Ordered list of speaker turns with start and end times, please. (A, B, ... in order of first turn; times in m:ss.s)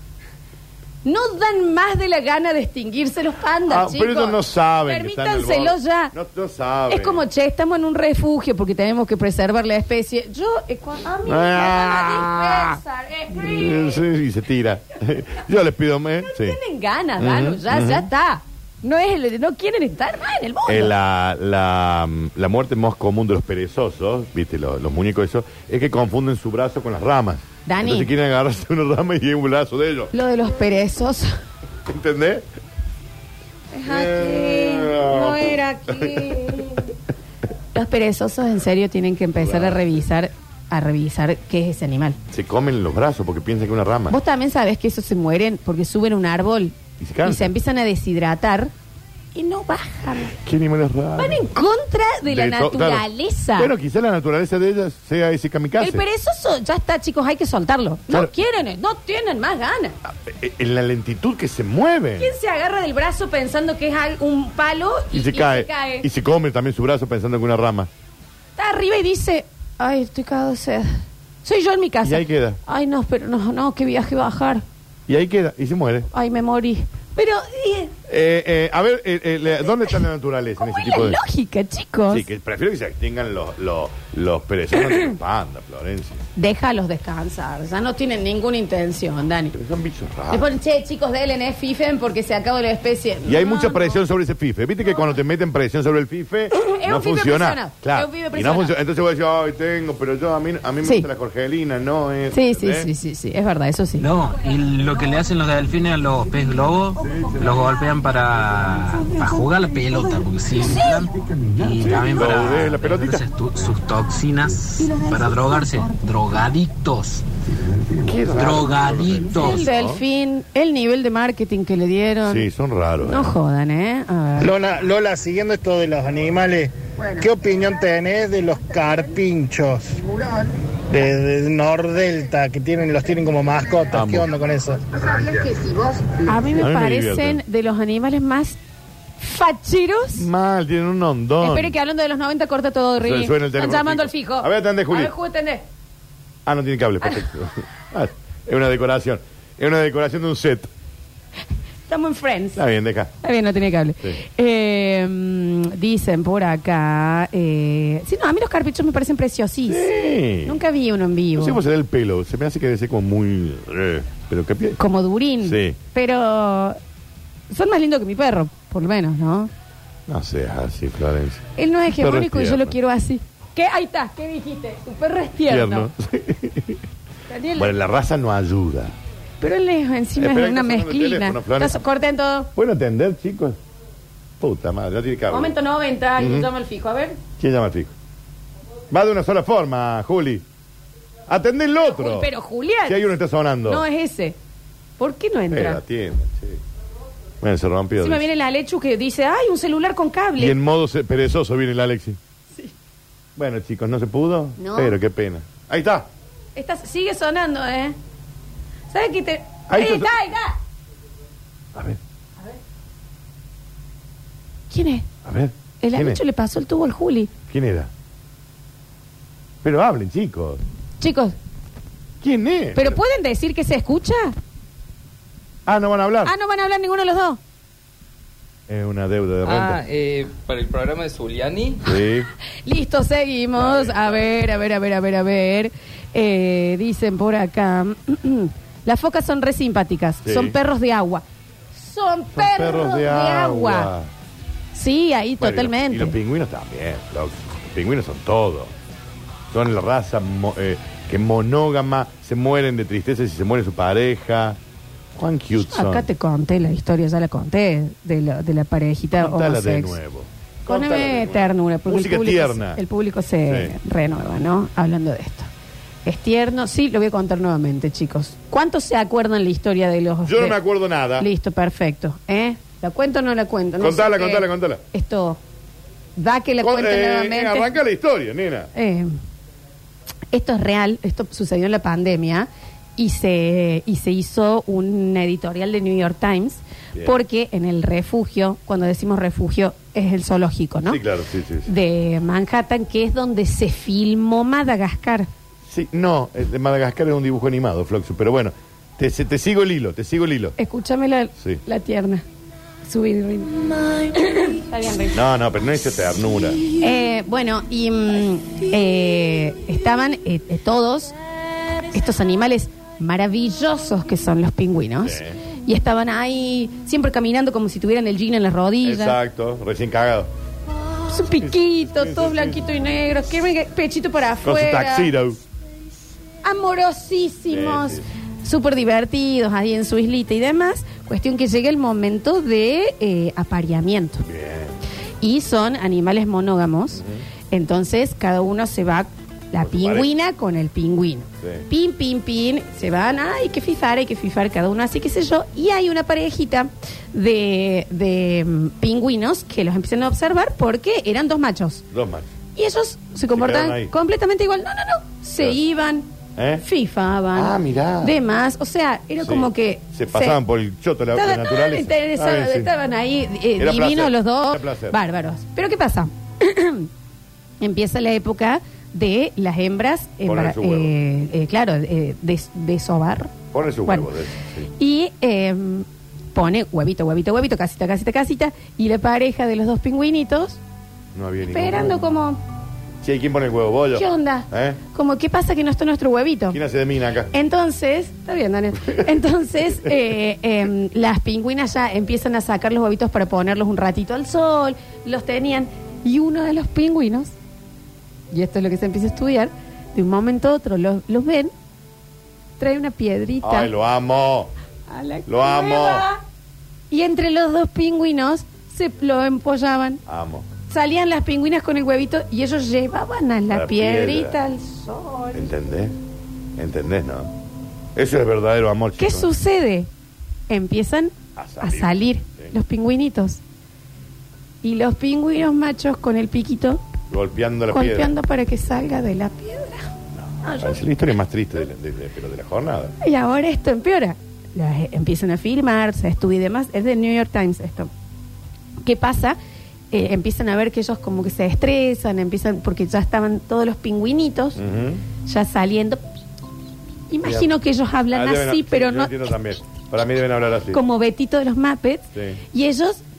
0:01.0-0:06.1 A
0:03.7-0:07.2 B
0:06.9-0:14.0 A
0:11.2-0:12.8 B
0:13.3-0:16.6 B
0:16.2-0:20.9 A
0:17.2-0:18.1 B
0:20.7-0:30.1 B
0:27.6-0:28.1 A
0:30.1-0:31.3 A
0:31.9-0:32.4 B
0:33.7-0:36.8 A
0:33.8-0:36.4 B
0:37.7-0:42.2 A
0:39.4-0:40.0 B
0:42.3-0:44.2 B
0:44.1-0:48.7 A
0:47.0-0:47.5 B
0:49.3-0:50.3 A
0:50.3-0:51.5 B
0:51.2-0:53.7 A
0:52.2-0:53.0 B
0:53.6-0:56.0 B
0:55.8-1:00.0 A
1:00.1-1:02.3 B
1:02.2-1:06.1 A
1:05.1-1:07.9 B
1:08.6-1:14.6 A
1:12.0-1:12.6 B
1:15.1-1:16.1 B
1:16.1-1:17.9 A
1:18.1-1:21.2 B
1:19.6-1:20.0 A
1:20.6-1:22.3 A
1:22.1-1:26.2 B
1:26.4-1:29.5 A
1:29.5-1:30.5 B
1:30.3-1:34.0 A
1:33.2-1:42.9 B
1:36.5-1:38.8 A
1:40.8-1:41.1 A
1:42.3-1:44.1 A
1:44.0-1:57.2 C
1:51.8-1:53.2 B
1:58.0-2:00.0 B
1:58.3-1:59.6 C
1:59.4-2:02.4 A
2:02.2-2:03.3 B
2:03.0-2:04.5 A
2:04.4-2:10.0 D
2:10.9-2:15.8 D
2:13.9-2:14.3 B
2:16.2-2:18.6 A
2:16.5-2:17.4 B
2:19.2-2:20.3 A
2:20.1-2:21.8 B
2:21.4-2:25.6 A
2:23.0-2:25.1 B
2:26.4-2:30.7 B
2:27.0-2:27.3 A
2:31.9-2:32.6 A
2:32.5-2:33.1 B
2:33.2-2:39.9 A
2:39.7-2:40.6 B
2:40.4-2:41.6 A
2:41.3-2:44.8 B
2:44.8-2:46.8 A
2:45.4-2:45.8 B
2:47.5-2:49.5 A
2:50.1-2:52.7 B
2:51.6-2:55.9 A
2:55.5-2:56.8 B
2:57.3-2:57.7 A
2:57.6-2:58.9 B
2:59.4-3:02.5 A
3:00.2-3:01.8 B
3:02.6-3:03.6 B
3:04.4-3:05.5 B
3:05.3-3:07.2 A
3:06.2-3:06.5 B
3:07.4-3:07.9 B
3:08.9-3:10.4 B
3:11.3-3:12.3 B
3:11.8-3:13.0 A
3:12.8-3:13.8 B
3:13.6-3:14.4 A
3:15.0-3:15.8 A
3:15.5-3:16.6 B
3:17.4-3:18.2 B
3:18.0-3:20.6 A
3:20.4-3:22.2 B
3:23.4-3:26.1 B
3:24.6-3:25.0 A
3:26.5-3:27.9 A
3:28.9-3:30.6 A
3:29.7-3:30.1 B
3:34.7-3:35.1 A
3:35.2-3:36.2 B
3:35.8-3:37.3 A
3:37.5-3:37.9 B
3:39.6-3:40.6 B
3:41.0-3:41.3 A
3:42.2-3:43.0 B
3:42.7-3:44.3 A
3:45.6-3:46.3 B
3:46.2-3:47.4 A
3:48.7-3:49.8 B
3:49.4-3:51.8 E
3:51.8-3:52.3 B
3:52.6-4:03.9 A
3:53.6-3:54.5 B
4:00.2-4:00.6 B
4:02.3-4:04.1 B
4:04.7-4:06.2 A
4:05.4-4:08.7 B
4:09.5-4:14.6 B
4:15.2-4:16.1 B
4:15.6-4:20.0 A
4:19.2-4:22.8 B
4:20.6-4:25.5 A
4:23.5-4:23.8 B
4:26.0-4:30.6 A
4:30.2-4:31.3 B
4:31.2-4:35.4 A
4:33.8-4:34.8 B
4:36.2-4:37.7 A
4:36.6-4:38.7 B
4:38.7-4:39.1 A
4:40.3-4:51.0 A
4:46.9-4:47.2 B
4:50.8-4:51.7 B
4:51.6-4:55.3 A
4:55.7-5:00.6 B
5:00.6-5:02.2 A
5:02.8-5:03.6 A
5:04.1-5:05.2 A
5:05.1-5:06.6 B
5:06.8-5:11.1 A
5:11.9-5:19.2 A
5:15.0-5:15.4 B
5:18.8-5:20.3 B
5:21.1-5:25.1 A
5:21.4-5:22.6 B
5:24.4-5:25.4 B
5:26.4-5:34.2 A
5:27.5-5:28.0 B
5:34.2-5:34.8 B
5:35.2-5:51.8 A
5:37.0-5:37.2 B
5:39.6-5:40.1 B
5:51.9-5:52.3 B
5:52.5-5:56.1 A
5:53.3-5:53.9 B
5:56.4-5:56.6 B
5:56.6-6:00.4 A
5:57.3-5:58.2 B
5:59.2-6:02.7 B
6:01.1-6:06.9 A
6:03.6-6:05.0 B
6:07.6-6:13.3 A
6:10.2-6:10.9 B
6:13.5-6:14.7 B
6:14.8-6:20.6 A
6:21.1-6:22.0 B
6:21.4-6:22.4 A
6:23.0-6:24.8 B
6:23.9-6:26.6 A
6:26.5-6:27.3 B
6:27.3-6:37.3 A
6:38.3-6:41.5 A
6:42.6-6:43.7 A
6:43.4-6:44.5 B
6:44.9-6:46.2 A
6:45.3-6:46.0 B
6:46.9-6:50.0 A
6:50.1-6:50.4 B
6:50.7-6:55.5 A
6:53.5-6:54.4 B
6:55.3-6:55.9 B
6:56.6-6:57.3 B
6:57.9-6:59.3 B
6:59.0-6:59.9 A
7:00.5-7:03.4 A
7:01.4-7:02.5 B
7:04.6-7:06.8 A
7:07.1-7:08.1 B
7:07.7-7:09.9 A
7:10.2-7:12.9 B
7:10.4-7:10.8 A
7:13.0-7:17.9 A
7:18.8-7:19.4 A
7:19.9-7:24.6 A
7:24.6-7:25.0 B
7:25.2-7:26.0 A
7:27.1-7:29.3 A
7:27.2-7:27.5 B
7:28.1-7:30.8 B
7:30.7-7:33.0 A
7:32.1-7:32.4 B